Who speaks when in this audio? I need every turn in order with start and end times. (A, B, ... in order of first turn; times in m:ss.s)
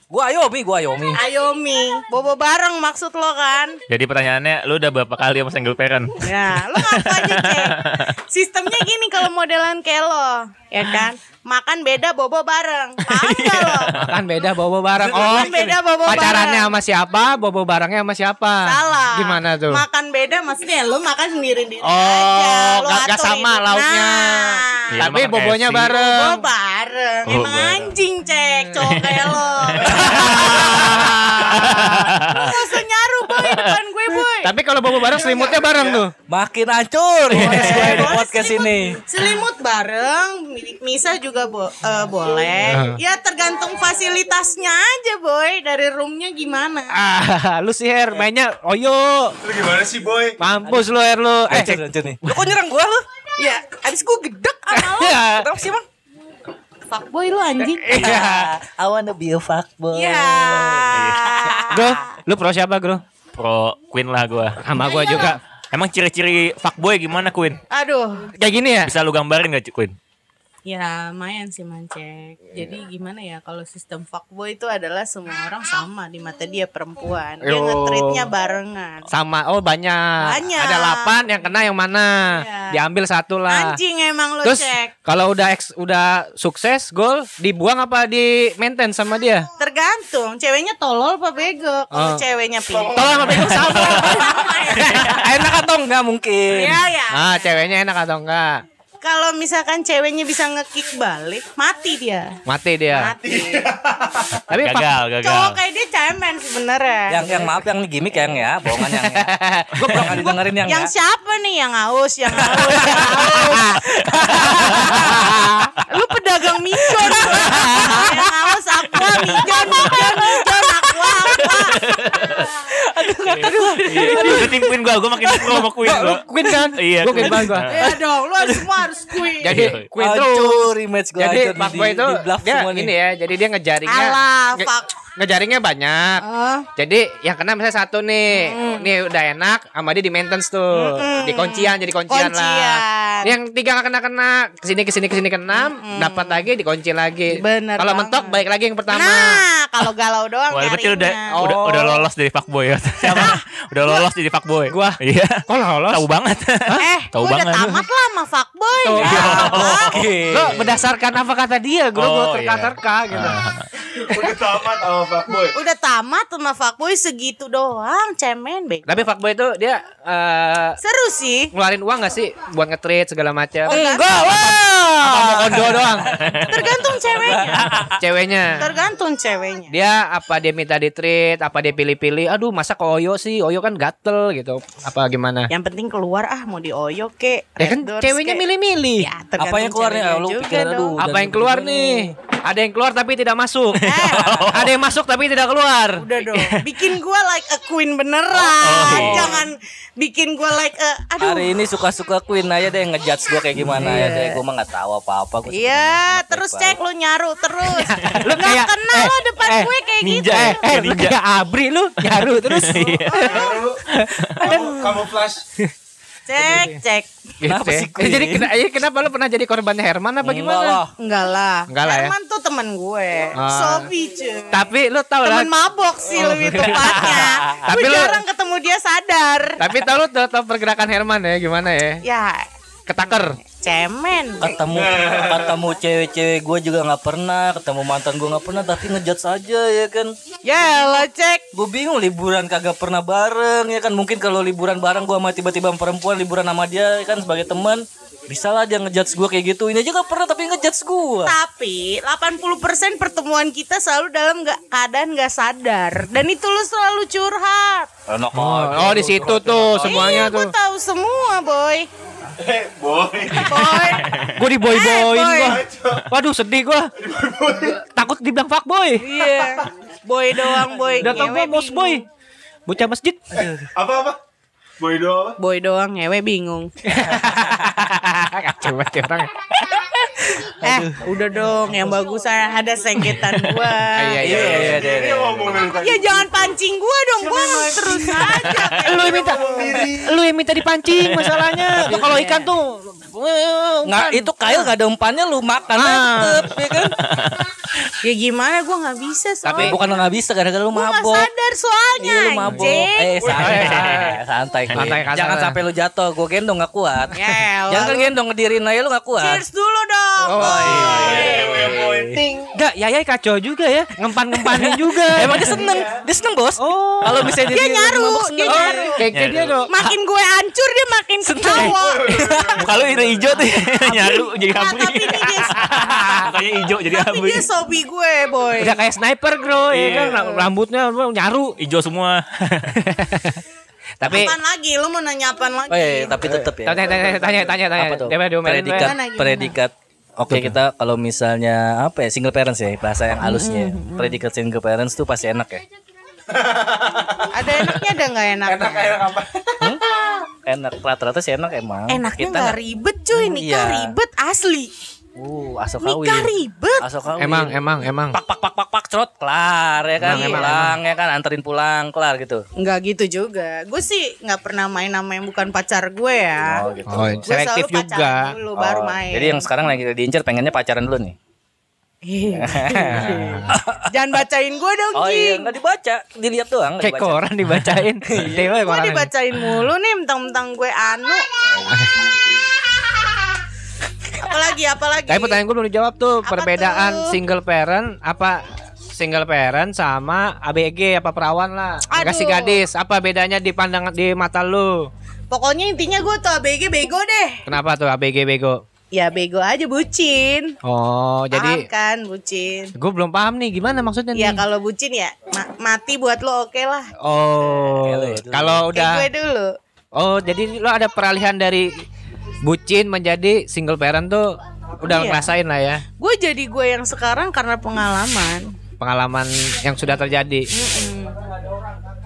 0:00.1-0:01.2 A
0:01.1-0:03.8 B
0:03.9-0:08.1 C
0:06.2-0:13.9 B
0:13.0-0:14.0 C
0:13.9-0:19.8 D
0:15.0-0:15.8 E
0:15.1-0:16.8 B
0:18.6-0:24.9 B
0:21.8-0:26.5 D
0:24.9-0:25.9 C
0:25.9-0:34.5 B
0:27.2-0:28.0 C
0:28.7-0:32.8 C
0:29.9-0:32.1 D
0:33.3-0:33.8 C
0:34.3-0:36.1 D
0:35.1-0:36.0 E
0:36.3-0:39.0 A
0:37.3-0:37.9 C
0:37.3-0:46.9 B
0:37.4-0:38.2 D
0:42.7-0:43.0 D
0:46.9-0:49.4 D
0:49.4-0:50.4 E
0:50.4-0:52.4 D
0:50.6-0:50.9 A
0:51.5-0:53.0 A
0:53.4-0:55.2 B
0:54.7-0:55.5 D
0:55.2-0:55.8 A
0:56.9-0:58.2 B
0:57.6-0:58.5 D
0:57.9-1:01.2 A
0:59.9-1:02.0 B
1:00.9-1:01.7 C
1:01.7-1:03.0 D
1:03.3-1:04.6 C
1:04.6-1:05.4 D
1:04.8-1:05.4 B
1:05.2-1:07.6 C
1:07.7-1:08.3 B
1:08.4-1:08.9 D
1:08.8-1:09.9 C
1:10.6-1:19.1 B
1:17.4-1:18.3 D
1:19.1-1:23.8 D
1:20.2-1:21.2 B
1:22.2-1:22.8 B
1:23.5-1:24.9 B
1:24.4-1:29.5 D
1:29.6-1:35.2 B
1:31.9-1:32.2 D
1:32.7-1:33.8 E
1:32.9-1:35.2 D
1:33.4-1:35.2 C
1:34.8-1:36.9 A
1:36.5-1:37.6 B
1:37.1-1:38.6 D
1:39.0-1:42.4 B
1:42.5-1:43.1 D
1:42.9-1:43.6 B
1:43.2-1:44.5 E
1:44.5-1:44.9 D
1:44.5-1:45.6 C
1:45.2-1:47.5 B
1:47.1-1:50.9 A
1:48.8-1:50.4 D
1:50.2-1:55.3 B
1:52.3-1:55.5 A
1:52.8-1:55.7 D
1:55.8-2:02.4 B
1:57.0-1:58.0 A
1:57.2-1:58.3 D
1:59.0-2:00.0 C
2:01.3-2:02.5 C
2:02.7-2:04.6 A
2:03.4-2:08.0 C
2:03.4-2:04.6 D
2:04.1-2:04.4 B
2:05.4-2:07.7 D
2:07.7-2:09.6 B
2:07.8-2:08.9 A
2:09.4-2:16.2 D
2:09.4-2:09.9 C
2:09.9-2:12.9 A
2:13.9-2:14.9 B
2:16.2-2:16.7 B
2:16.8-2:29.4 D
2:18.3-2:18.9 B
2:20.7-2:23.3 B
2:25.5-2:26.5 B
2:27.3-2:28.4 B
2:28.9-2:31.3 B
2:30.5-2:37.9 C
2:31.4-2:32.1 D
2:33.0-2:33.4 D
2:33.1-2:34.0 B
2:34.7-2:36.0 D
2:36.8-2:40.1 B
2:38.8-2:39.7 D
2:39.0-2:40.1 C
2:39.8-2:40.7 A
2:40.3-2:43.4 D
2:42.0-2:43.7 C
2:44.0-2:45.6 E
2:45.5-2:48.8 B
2:48.9-2:50.8 D
2:50.8-2:51.5 B
2:51.5-2:56.1 D
2:53.7-2:54.3 B
2:53.7-2:58.0 A
2:56.1-2:56.9 C
2:56.5-2:57.9 B
2:58.0-2:58.7 D
2:58.6-2:59.7 B
2:59.7-3:05.5 D
3:05.5-3:08.4 B
3:07.6-3:09.1 D
3:09.0-3:11.0 B
3:09.4-3:12.2 A
3:11.0-3:13.9 D
3:13.8-3:14.7 C
3:13.8-3:14.5 B
3:14.1-3:14.7 A
3:14.5-3:16.1 D
3:16.0-3:21.5 B
3:18.3-3:19.5 A
3:18.6-3:19.4 C
3:21.2-3:26.8 A
3:23.7-3:24.4 B
3:25.5-3:30.6 B
3:27.8-3:29.7 D
3:30.0-3:31.2 C
3:30.3-3:33.4 D
3:32.0-3:33.5 C
3:33.1-3:33.6 B
3:33.2-3:33.8 E
3:34.0-3:35.0 D
3:34.0-3:34.6 C
3:34.4-3:35.4 E
3:36.3-3:37.1 B
3:36.4-3:36.8 D
3:37.4-3:40.8 D
3:37.4-3:38.5 A
3:40.2-3:40.9 A
3:41.0-3:44.7 B
3:41.7-3:42.1 D
3:43.4-3:43.9 D
3:44.5-3:45.5 D
3:45.2-3:49.6 B
3:46.2-3:48.2 D
3:46.6-3:47.7 A
3:49.6-3:52.0 D
3:52.0-3:52.5 B
3:52.9-3:53.4 D
3:53.4-3:54.4 B
3:54.4-4:00.1 A
3:54.7-3:55.6 E
4:00.4-4:01.5 B
4:01.5-4:11.4 A
4:11.2-4:17.9 B
4:18.1-4:20.3 A
4:18.3-4:20.5 D
4:19.8-4:21.9 B
4:22.4-4:24.0 E
4:23.4-4:25.6 B
4:24.0-4:24.3 C
4:24.4-4:26.9 D
4:25.4-4:26.1 E
4:27.0-4:27.8 E
4:27.5-4:29.1 D
4:29.0-4:32.0 B
4:31.0-4:32.0 D
4:32.7-4:33.5 D
4:33.3-4:34.2 E
4:34.8-4:35.4 E
4:35.4-4:36.7 B
4:36.8-4:39.8 D
4:37.1-4:37.7 A
4:40.4-4:41.0 A
4:40.6-4:44.7 B
4:43.9-4:44.8 D
4:44.2-4:45.7 A
4:44.2-4:46.4 E
4:45.7-4:49.9 B
4:47.2-4:50.2 E
4:48.3-4:54.7 D
4:51.0-4:51.4 C
4:51.8-4:52.5 B
4:53.8-4:57.0 A
4:55.8-4:56.5 D
4:56.2-4:56.4 B
4:57.0-4:57.4 C
4:58.0-4:59.8 B
4:59.4-4:59.8 D
4:59.6-5:01.3 A
5:00.7-5:03.4 B
5:02.0-5:09.4 A
5:02.5-5:04.2 D
5:03.2-5:03.5 E
5:03.5-5:04.2 C
5:04.8-5:05.6 D
5:07.1-5:08.1 B
5:09.2-5:11.8 B
5:10.3-5:10.8 D
5:10.4-5:12.2 A
5:10.4-5:12.5 E
5:10.7-5:11.1 C
5:12.5-5:15.5 D
5:14.3-5:19.0 A
5:15.4-5:16.0 E
5:16.6-5:17.5 D
5:17.5-5:19.0 B
5:18.4-5:19.7 D
5:19.1-5:19.6 C
5:19.7-5:22.8 B
5:21.2-5:21.8 A
5:21.6-5:23.4 E
5:22.6-5:27.5 C
5:23.4-5:26.2 B
5:25.5-5:26.3 D
5:26.8-5:28.8 B
5:28.6-5:31.6 D
5:29.7-5:30.2 C
5:29.9-5:30.5 B
5:31.6-5:32.8 C
5:32.8-5:33.4 D
5:34.0-5:34.4 D
5:34.0-5:36.2 B
5:35.7-5:45.6 A
5:36.3-5:39.0 D
5:38.7-5:39.6 B
5:40.3-5:40.6 D
5:43.2-5:44.2 B
5:46.3-5:47.9 E
5:47.3-5:49.1 B
5:48.4-5:49.7 E
5:50.4-5:52.6 A
5:51.9-5:54.7 B
5:53.1-5:54.0 A
5:55.2-6:02.5 A
5:55.8-5:56.8 B
5:57.2-5:58.2 D
6:00.0-6:00.8 D
6:00.1-6:00.5 B
6:02.6-6:06.7 B
6:06.4-6:07.3 A
6:06.9-6:08.4 D
6:07.2-6:09.5 B
6:08.6-6:11.2 A
6:12.0-6:15.5 B
6:12.3-6:14.2 A
6:12.9-6:13.5 D
6:14.9-6:17.3 A
6:16.8-6:19.1 D
6:18.0-6:18.4 A
6:18.4-6:21.4 B
6:24.2-6:25.4 B
6:25.1-6:34.9 D
6:26.2-6:27.2 B
6:31.9-6:32.6 B
6:35.3-6:37.4 B
6:37.5-6:38.6 D
6:38.9-6:40.6 B
6:40.6-6:41.7 D
6:41.3-6:42.7 B
6:42.8-6:44.4 D
6:44.1-6:46.9 B
6:47.0-6:49.1 D
6:47.8-6:48.7 A
6:48.7-6:49.6 B
6:50.0-6:51.8 D
6:52.4-6:55.8 D
6:54.8-6:55.3 B
6:56.0-6:58.5 B
6:58.8-7:00.5 D
7:00.5-7:01.2 B